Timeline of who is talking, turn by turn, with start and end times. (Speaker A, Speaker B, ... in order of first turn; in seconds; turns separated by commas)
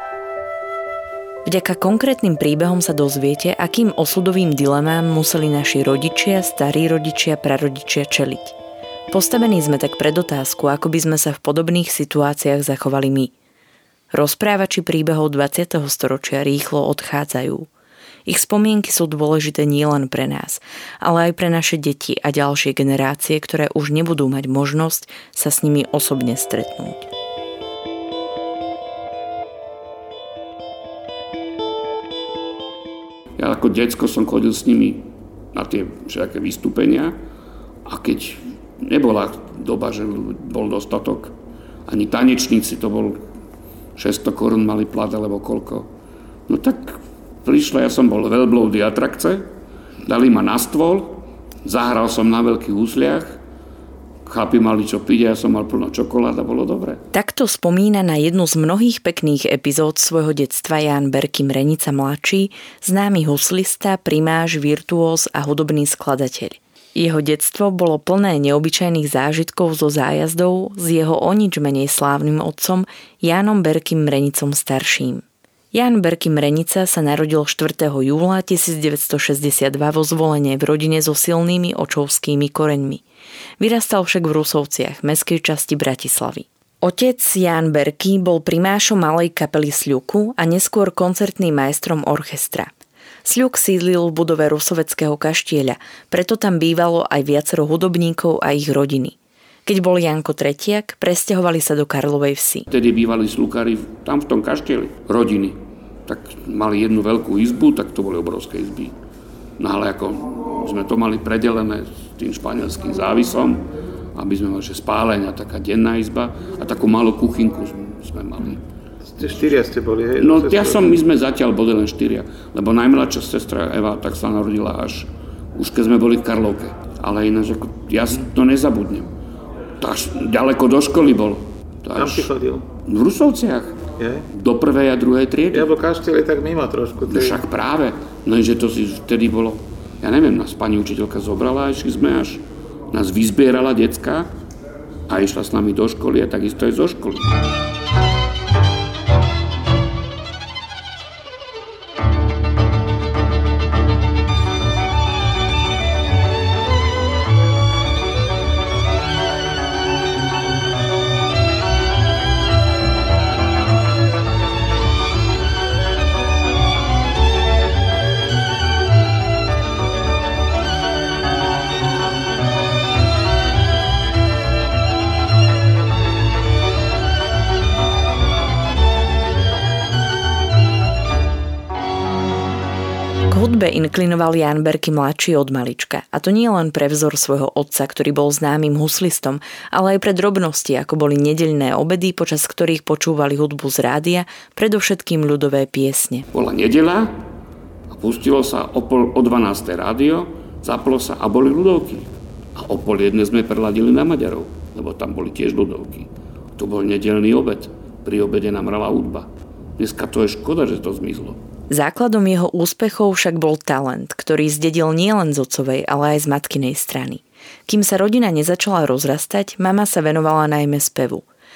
Speaker A: 1.4-8.6, Speaker A: 9.1-13.3, Speaker A: 14.1-17.7, Speaker A: 18.3-27.1, Speaker B: 33.4-37.2, Speaker B: 37.8-41.3, Speaker B: 41.9-43.2, Speaker B: 44.0-45.9, Speaker B: 46.5-49.5, Speaker B: 50.0-53.4, Speaker B: 54.2-57.0, Speaker A: 57.1-83.0, Speaker A: 83.6-92.7, Speaker A: 93.2-102.7, Speaker B: 102.7-108.9, Speaker B: 109.6-118.6, Speaker C: 119.1-121.0, Speaker B: 120.2-129.1, Speaker B: 129.8-132.3, Speaker C: 131.9-132.7, Speaker B: 132.8-135.7, Speaker C: 134.0-134.3, Speaker C: 135.5-137.4, Speaker B: 137.1-144.3, Speaker B: 145.1-147.3, Speaker A: 183.3-196.3, Speaker B: 196.3-197.2, Speaker B: 197.9-211.4, Speaker A: 211.7-221.2